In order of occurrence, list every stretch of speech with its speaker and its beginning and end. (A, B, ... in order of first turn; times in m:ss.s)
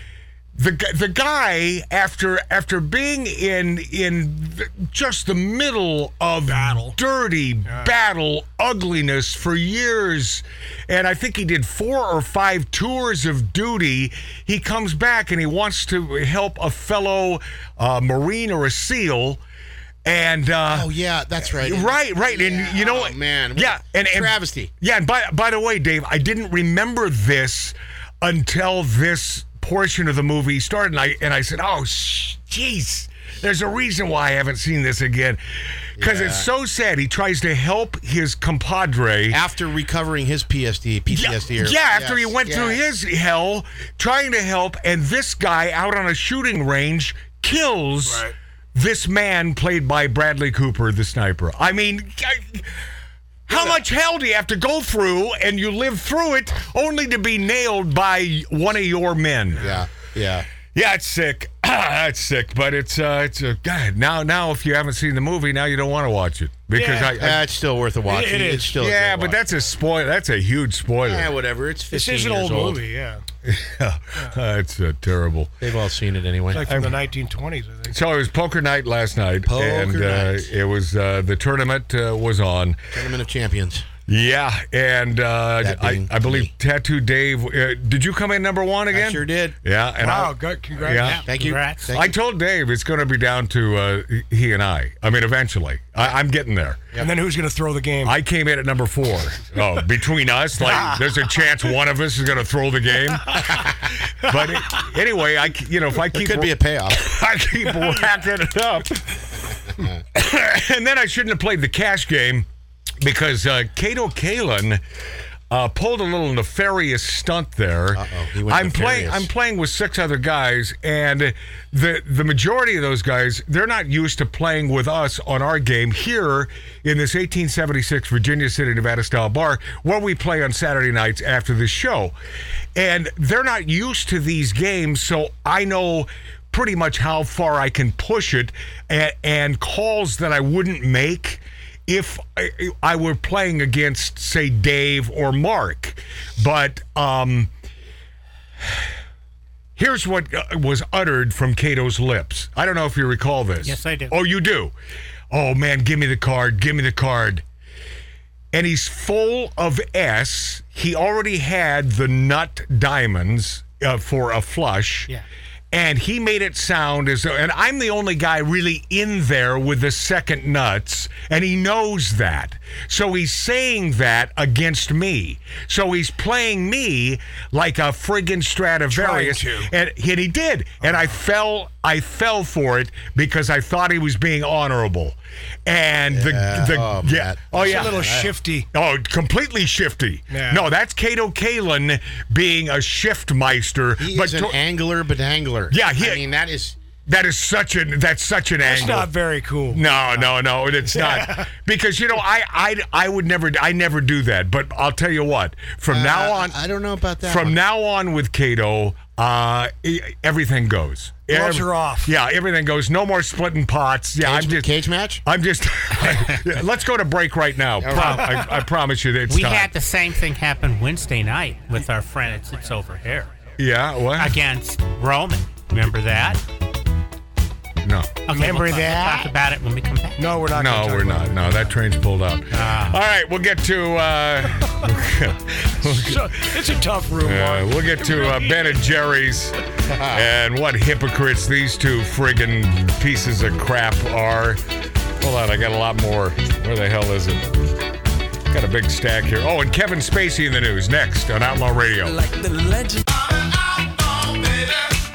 0:00.6-0:19.4 A
0:06.5-0:07.0 B
0:20.0-0:35.4 A
0:20.7-0:24.7 C
0:36.0-0:39.4 A
0:36.0-0:36.5 C
0:39.3-0:42.8 C
0:41.1-0:52.8 A
0:48.0-0:48.3 B
0:53.5-0:59.7 A
0:53.5-0:53.8 B
0:59.6-0:59.8 B
0:59.6-1:00.5 C
1:00.7-1:07.4 A
1:06.7-1:07.2 B
1:07.1-1:09.4 C
1:08.1-1:08.8 B
1:08.8-1:11.3 A
1:11.0-1:12.8 C
1:11.9-1:13.2 B
1:13.4-1:15.5 A
1:15.6-1:16.9 C
1:16.5-1:18.0 B
1:16.6-1:16.9 A
1:17.9-1:22.9 A
1:19.4-1:20.5 C
1:22.9-1:23.9 C
1:24.1-1:36.9 A
1:25.6-1:26.5 C
1:28.9-1:29.6 C
1:30.0-1:31.2 B
1:31.0-1:31.9 D
1:31.3-1:32.2 C
1:37.0-1:38.2 B
1:38.0-1:49.0 A
1:43.5-1:43.8 C
1:46.0-1:47.1 C
1:49.7-1:50.0 C
1:50.1-1:52.5 A
1:53.0-1:54.8 A
1:55.5-2:12.2 A
1:57.9-1:59.3 C
2:12.8-2:27.5 A
2:29.8-2:34.7 A
2:33.6-2:34.2 D
2:35.3-2:37.4 A
2:38.5-2:45.1 A
2:45.7-3:14.6 A
2:58.9-2:59.7 B
3:00.8-3:01.1 B
3:06.1-3:08.3 C
3:07.6-3:08.7 B
3:10.3-3:10.7 B
3:14.0-3:16.8 C
3:15.7-3:16.2 A
3:17.1-3:19.1 A
3:18.6-3:19.8 B
3:19.7-3:26.6 A
3:20.9-3:21.5 B
3:25.9-3:27.6 C
3:27.2-3:39.7 A
3:31.3-3:32.1 B
3:34.2-3:35.2 C
3:37.8-3:38.3 C
3:38.0-3:38.5 B
3:39.3-3:43.4 D
3:43.6-3:44.4 A
3:44.2-3:46.4 D
3:47.8-3:48.2 A
3:48.3-3:50.2 D
3:48.3-3:49.3 B
3:50.2-3:51.7 B
3:50.5-3:56.6 A
3:52.5-3:53.0 D
3:55.8-3:58.9 B
3:57.2-4:04.6 A
3:59.9-4:00.2 C
4:05.2-4:07.8 A
4:08.5-4:12.2 A
4:12.1-4:14.8 E